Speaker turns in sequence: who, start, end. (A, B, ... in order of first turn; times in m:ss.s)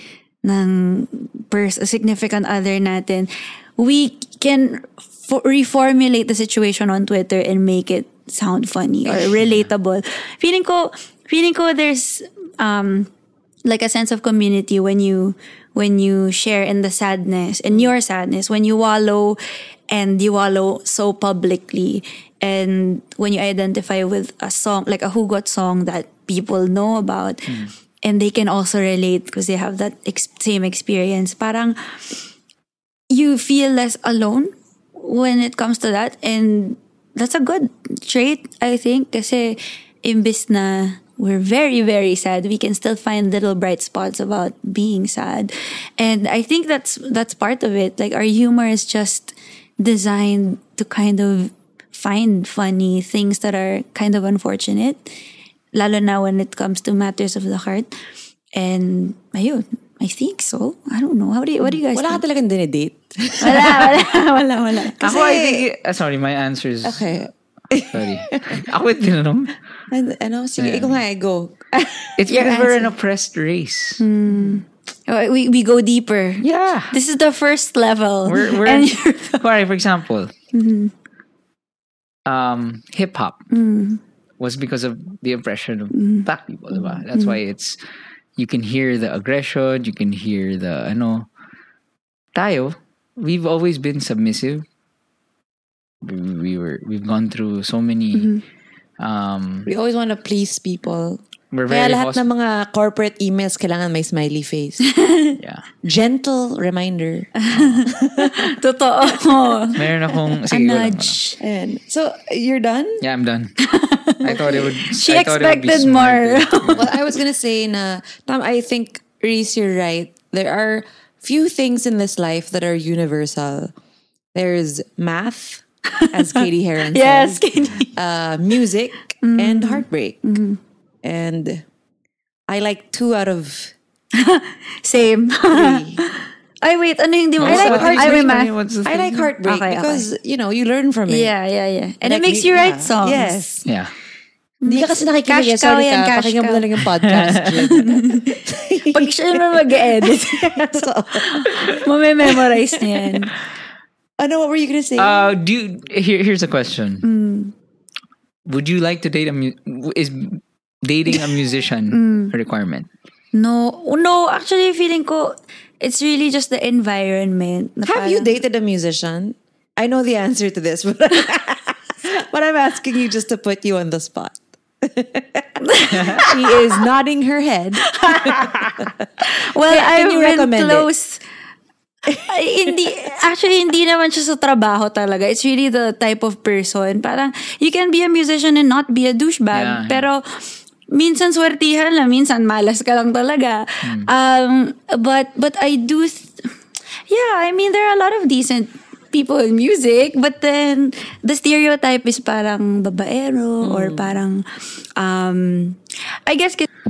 0:00.4-0:13.1 A
0:09.4-0:09.7 B
0:13.6-0:19.4 A
0:19.9-0:31.8 A
0:27.5-0:27.7 B
0:33.1-0:55.1 A
0:55.7-0:57.9 A
0:58.5-1:02.2 A
1:01.6-1:04.0 C
1:03.4-1:05.2 A
1:05.0-1:05.6 C
1:05.0-1:07.1 B
1:06.8-1:08.6 C
1:07.9-1:09.6 B
1:09.9-1:12.1 C
1:10.6-1:11.0 B
1:12.2-1:14.0 B
1:12.3-1:12.9 A
1:14.0-1:19.4 A
1:16.4-1:16.9 B
1:18.2-1:20.3 B
1:20.5-1:20.9 A
1:22.2-1:23.4 B
1:23.5-1:24.0 A
1:24.4-1:27.8 B
1:25.9-1:27.4 A
1:28.4-1:31.3 B
1:32.3-1:34.6 B
1:36.0-1:38.3 B
1:38.1-1:38.4 A
1:39.0-1:39.7 B
1:39.6-1:44.8 C
1:41.5-1:42.2 B
1:44.8-1:45.4 A
1:45.4-1:45.6 B
1:45.8-1:48.6 C
1:47.4-1:49.8 A
1:49.7-1:51.2 B
1:50.4-1:51.4 A
1:51.4-1:53.0 C
1:53.0-1:53.5 B
1:53.6-1:57.0 A
1:54.2-1:56.9 B
1:54.3-1:54.6 C
1:56.7-2:03.7 C
2:04.3-2:10.2 C
2:05.9-2:07.9 A
2:09.2-2:10.6 A
2:11.0-2:11.6 C
2:12.5-2:13.7 C
2:14.1-2:18.6 A
2:15.5-2:16.0 C
2:17.4-2:19.3 B
2:17.4-2:21.3 C
2:19.4-2:20.1 A
2:21.1-2:23.6 A
2:22.0-2:23.6 C
2:23.6-2:23.9 B
2:24.6-2:26.7 A
2:24.6-2:33.3 C
2:27.0-2:27.6 B
2:27.6-2:33.3 A
2:34.2-2:35.3 C
2:35.0-2:37.0 B
2:37.0-2:37.5 A
2:38.4-2:42.9 B
2:41.9-2:42.3 A
2:43.3-2:48.4 A
2:47.8-2:58.9 C
2:55.6-2:56.6 A
2:57.9-3:01.2 A
2:59.6-3:00.9 C
3:02.2-3:16.5 A
3:09.5-3:10.1 B
3:13.8-3:14.1 B
3:17.1-3:24.4 A
3:23.6-3:24.2 C
3:25.0-3:26.7 A